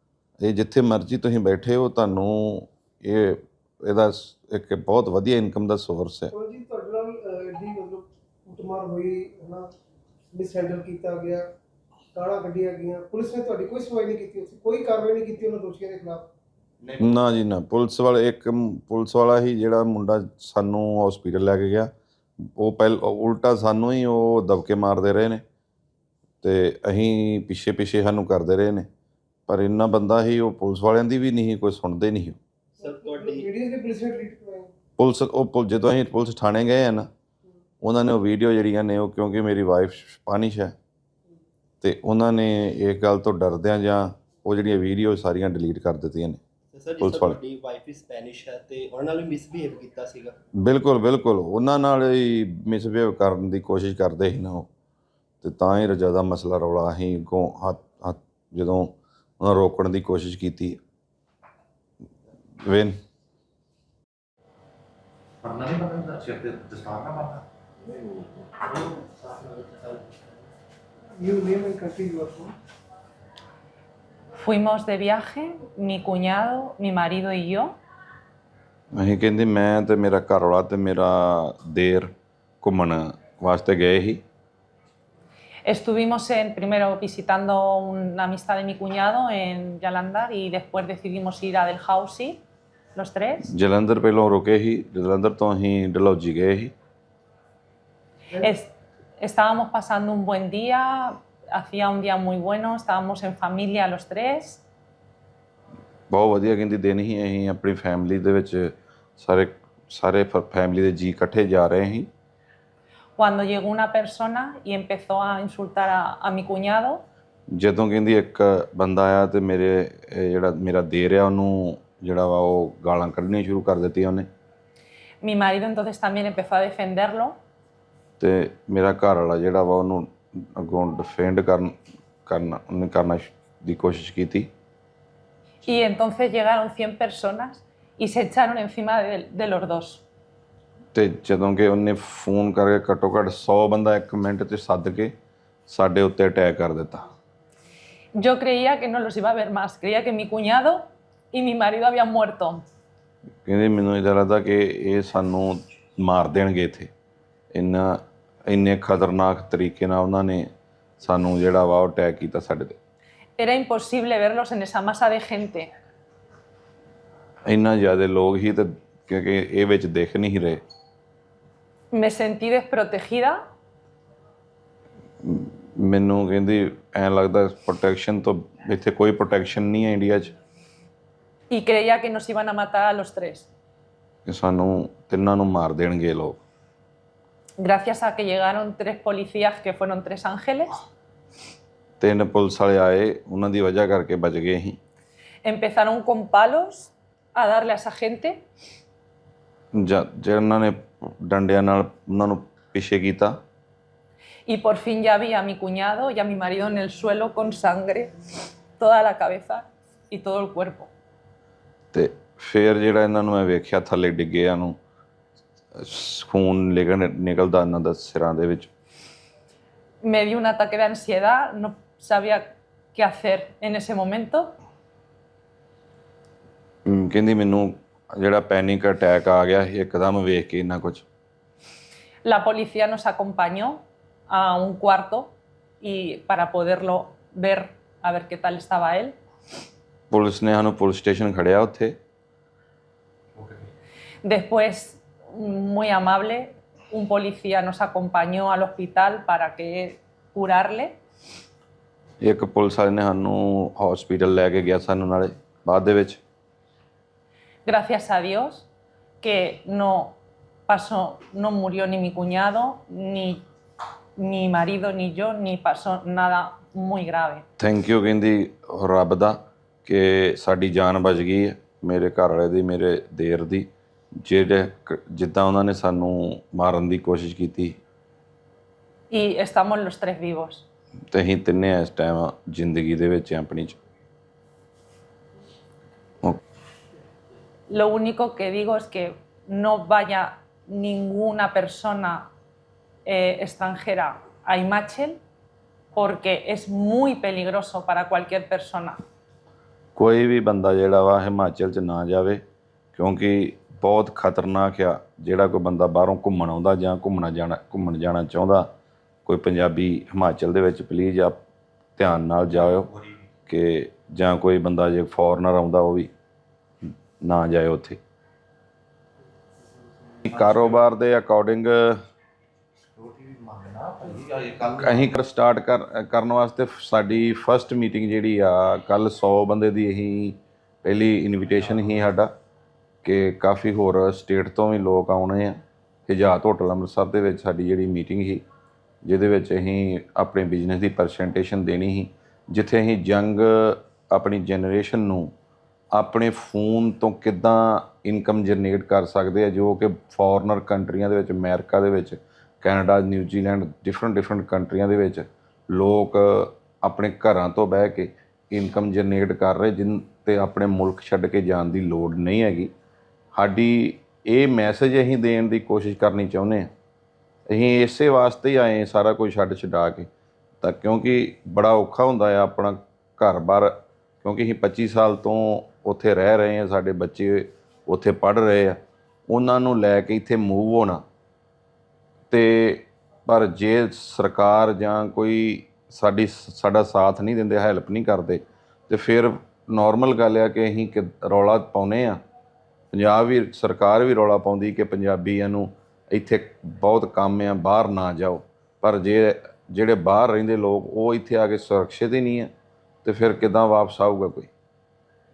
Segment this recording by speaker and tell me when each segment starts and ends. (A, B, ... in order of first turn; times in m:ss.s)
0:00.4-0:06.3 A
0:06.3-0:09.7 B
0:10.3-0:11.4 B
0:12.1-0:16.3 B
0:16.9-0:25.4 A
0:26.4-0:28.9 A
0:29.5-0:32.4 A
0:32.8-0:33.5 C
0:32.8-0:34.7 B
0:35.0-0:37.1 A
0:37.8-0:40.8 A
0:41.8-0:46.4 A
0:46.7-0:50.4 C
0:47.0-0:47.4 A
0:50.6-0:54.7 A
0:55.4-1:00.8 A
1:02.6-1:03.0 A
1:05.4-1:07.4 D
1:07.8-1:08.5 B
1:08.6-1:10.4 C
1:11.2-1:12.6 B
1:14.4-1:17.8 E
1:18.9-1:22.1 A
1:22.6-1:24.2 A
1:25.7-1:32.4 E
1:33.0-1:33.5 E
1:33.5-1:36.7 A
1:38.4-1:38.7 E
1:39.2-1:44.6 E
1:46.1-1:52.1 A
1:53.2-1:57.0 E
1:57.5-2:04.3 A
2:05.2-2:07.4 E
2:08.2-2:11.7 A
2:12.3-2:14.5 A
2:15.6-2:20.0 E
2:20.9-2:25.1 A
2:25.7-2:27.0 A
2:28.2-2:32.6 E
2:33.4-2:36.9 A
2:37.5-2:40.5 A
2:41.0-2:42.8 A
2:43.4-2:45.7 E
2:47.5-2:50.6 A
2:51.9-2:53.4 E
2:55.2-3:00.3 A
3:01.5-3:03.5 E
3:04.3-3:06.4 A
3:07.6-3:10.8 E
3:12.0-3:14.8 A
3:15.4-3:18.4 E
3:19.7-3:23.4 A
3:24.5-3:30.9 E
3:31.9-3:34.8 A
3:35.8-3:38.7 A
3:40.0-3:44.5 E
3:46.8-3:51.0 A
3:52.2-3:59.2 E
4:00.1-4:02.0 A
4:04.2-4:10.9 E
4:12.2-4:16.2 A
4:17.7-4:18.7 E
4:19.2-4:20.2 E
4:20.7-4:23.4 E
4:24.2-4:27.4 E
4:27.6-4:33.7 A
4:34.2-4:37.8 A
4:39.1-4:40.6 E
4:41.1-4:43.8 A
4:47.7-4:52.3 E
4:53.1-4:55.2 E
4:56.0-4:59.0 E
5:00.0-5:02.4 A
5:02.9-5:08.7 A
5:09.3-5:11.4 A
5:12.0-5:12.9 A
5:13.5-5:16.1 A
5:17.2-5:18.0 A
5:20.1-5:20.6 D
5:20.3-5:22.0 A
5:22.9-5:25.1 D
5:24.7-5:32.3 A
5:33.0-5:38.4 A
5:39.0-5:45.3 A
5:45.9-6:02.7 A
6:03.3-6:06.7 A
6:07.5-6:10.1 A
6:10.6-6:21.0 A
6:22.3-6:32.2 A
6:32.9-6:42.5 A
6:43.0-6:44.5 A